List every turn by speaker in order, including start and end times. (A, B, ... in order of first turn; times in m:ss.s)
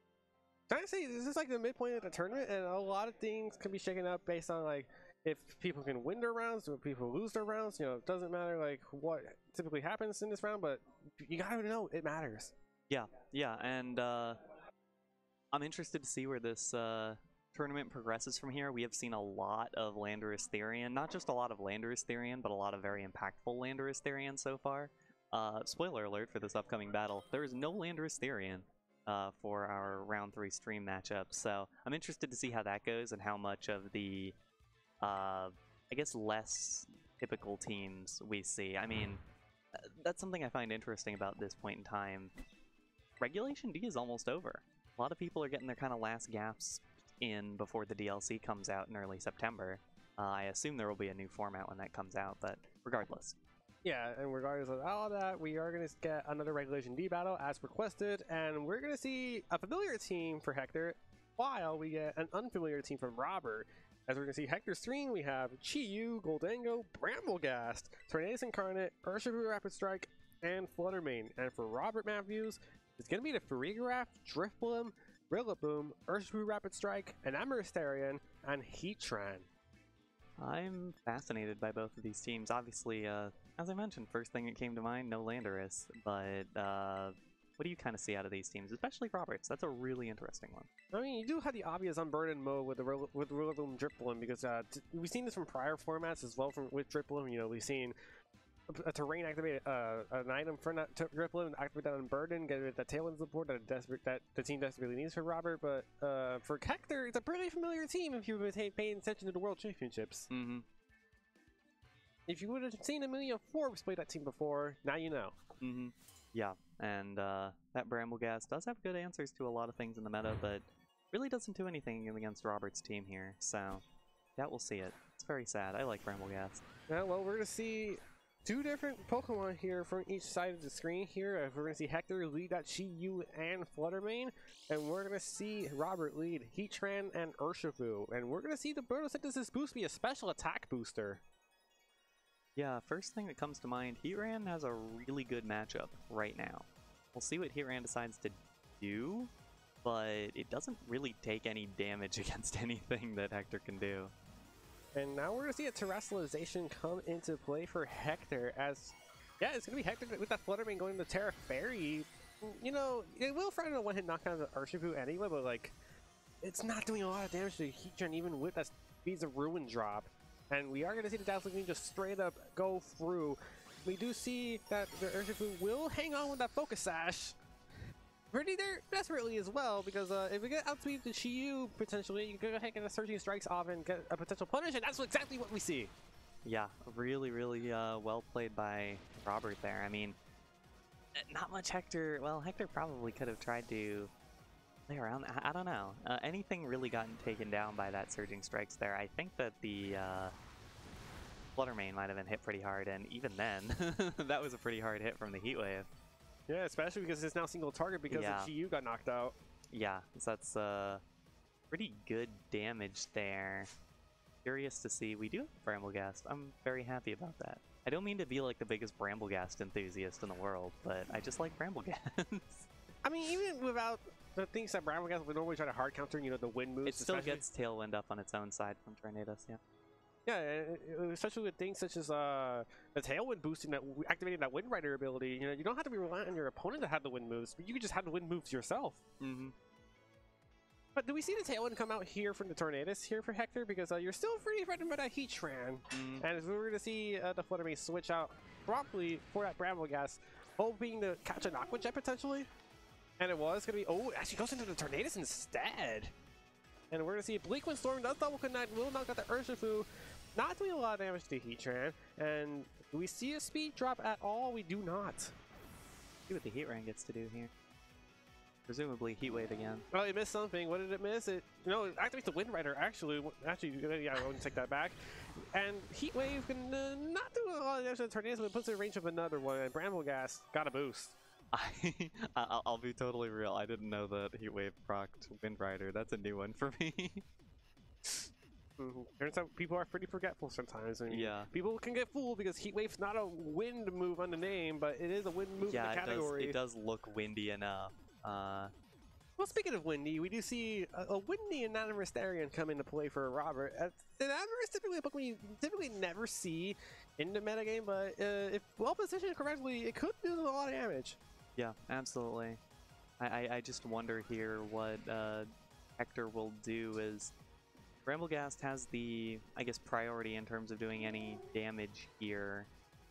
0:00.7-0:12.5 A
0:12.9-0:14.4 B
0:15.5-0:34.4 B
0:35.0-0:39.2 B
0:39.8-0:42.3 B
0:43.2-0:53.4 B
0:53.8-1:19.5 A
1:20.4-1:30.7 B
1:30.9-1:38.0 A
1:38.7-1:50.3 A
1:50.3-1:50.6 B
1:52.3-1:55.4 A
1:55.6-2:03.8 B
2:04.4-2:06.6 B
2:06.9-2:21.2 A
2:22.6-2:29.3 B
2:29.8-2:34.1 B
2:35.0-2:45.8 A
2:46.4-2:57.4 A
2:58.3-3:05.9 A
3:06.4-3:10.2 B
3:11.2-3:14.1 B
3:14.9-3:20.4 B
3:21.6-3:25.9 B
3:26.5-3:29.3 A
3:28.1-3:28.5 B
3:29.7-3:31.0 B
3:31.7-3:33.7 B
3:34.4-3:42.7 B
3:43.0-3:47.4 A
3:46.9-3:49.6 B
3:50.3-3:59.0 A
3:59.2-3:59.6 B
4:01.0-4:12.5 A
4:05.9-4:06.2 B
4:13.2-4:16.1 A
4:16.9-4:25.3 A
4:26.3-4:27.5 B
4:28.7-4:29.8 B
4:29.9-4:41.2 A
4:41.5-4:47.2 B
4:48.8-4:56.6 A
4:51.1-4:51.5 B
4:55.6-4:58.7 B
4:59.4-5:11.2 A
5:11.6-5:12.6 B
5:13.2-5:17.3 B
5:18.0-5:22.7 B